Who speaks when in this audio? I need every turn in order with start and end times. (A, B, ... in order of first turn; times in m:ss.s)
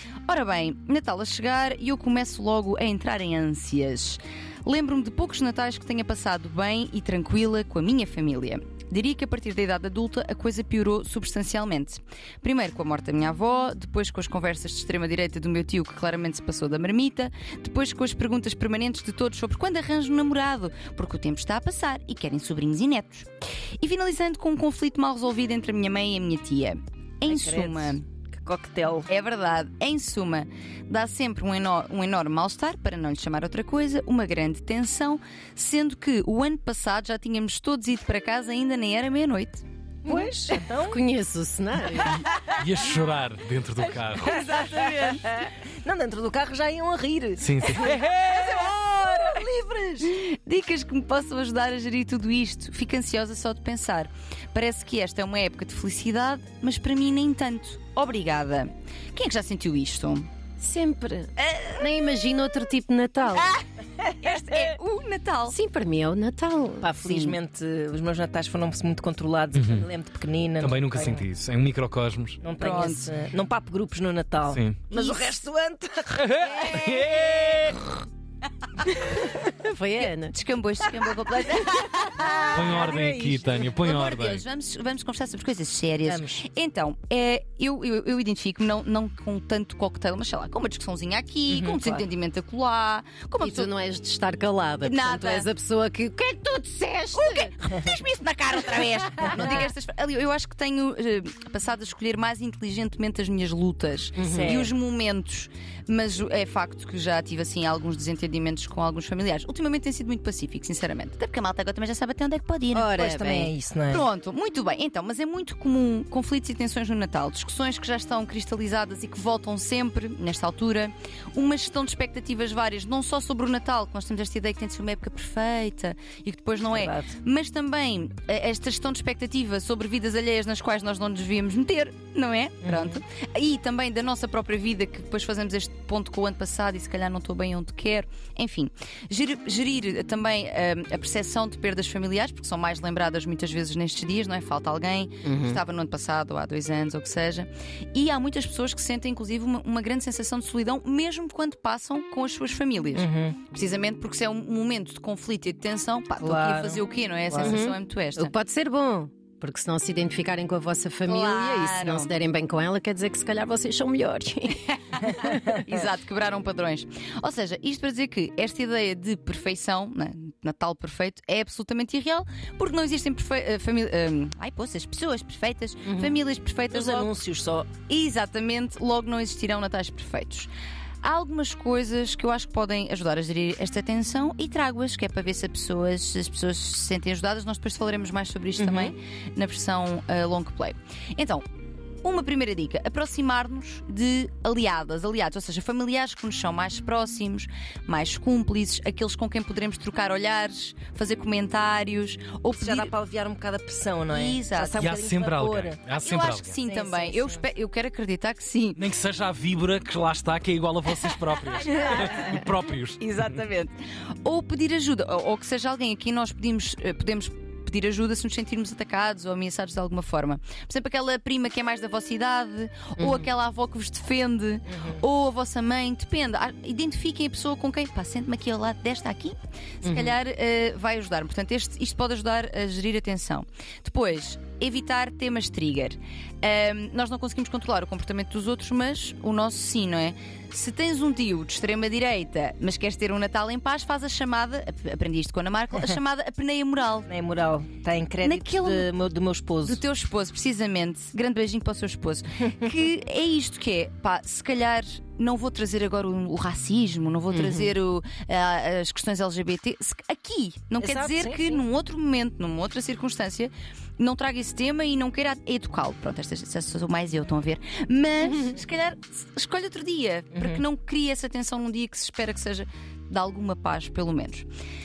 0:00.3-0:23.3 A
0:23.8-0:28.0 A
0:27.3-0:29.1 B
0:29.1-0:39.6 A
0:40.0-0:41.0 B
0:40.8-0:42.2 C
0:42.1-0:42.5 A
0:42.6-0:44.4 D
0:44.1-0:50.1 B
0:44.2-0:45.4 A
0:47.4-0:48.0 D
0:47.8-0:48.6 A
0:50.0-1:00.3 A
1:00.6-1:03.5 C
1:01.4-1:02.0 A
1:03.3-1:05.6 A
1:05.5-1:07.2 C
1:06.8-1:11.2 B
1:09.5-1:09.9 D
1:10.6-1:12.4 D
1:12.4-1:16.4 B
1:12.6-1:13.1 A
1:14.5-1:14.8 D
1:14.9-1:15.3 A
1:16.2-1:17.9 D
1:16.4-1:17.2 A
1:19.4-1:20.3 C
1:20.0-1:23.0 A
1:22.0-1:23.7 B
1:22.5-1:24.4 D
1:23.8-1:33.7 A
1:26.0-1:26.4 B
1:31.5-1:32.1 B
1:33.4-1:37.5 C
1:34.8-1:35.5 A
1:37.1-2:38.3 A
1:39.3-1:39.7 B
1:44.2-1:44.6 C
1:44.2-1:44.7 B
1:52.8-1:54.1 B
2:06.7-2:07.1 B
2:12.6-2:13.0 B
2:25.2-2:25.6 C
2:33.0-2:33.4 B
2:36.2-2:37.7 B
2:37.4-2:44.7 C
2:41.1-2:42.1 A
2:44.7-2:57.1 A
2:56.7-2:57.7 B
2:57.9-3:00.5 A
3:01.0-3:11.4 A
3:08.6-3:08.9 B
3:12.0-3:22.9 A
3:22.6-3:25.8 B
3:24.1-3:24.9 A
3:24.8-3:26.6 D
3:26.0-3:28.8 A
3:26.6-3:27.4 B
3:28.8-3:33.0 D
3:31.6-3:32.3 A
3:33.0-3:33.7 A
3:34.2-4:07.1 A
3:43.0-3:43.2 C
3:44.7-3:45.0 B
3:49.8-3:50.1 C
4:07.1-4:09.8 B
4:08.2-4:08.9 A
4:09.6-4:34.5 A
4:17.3-4:17.7 C
4:20.8-4:21.6 B
4:30.3-4:30.6 B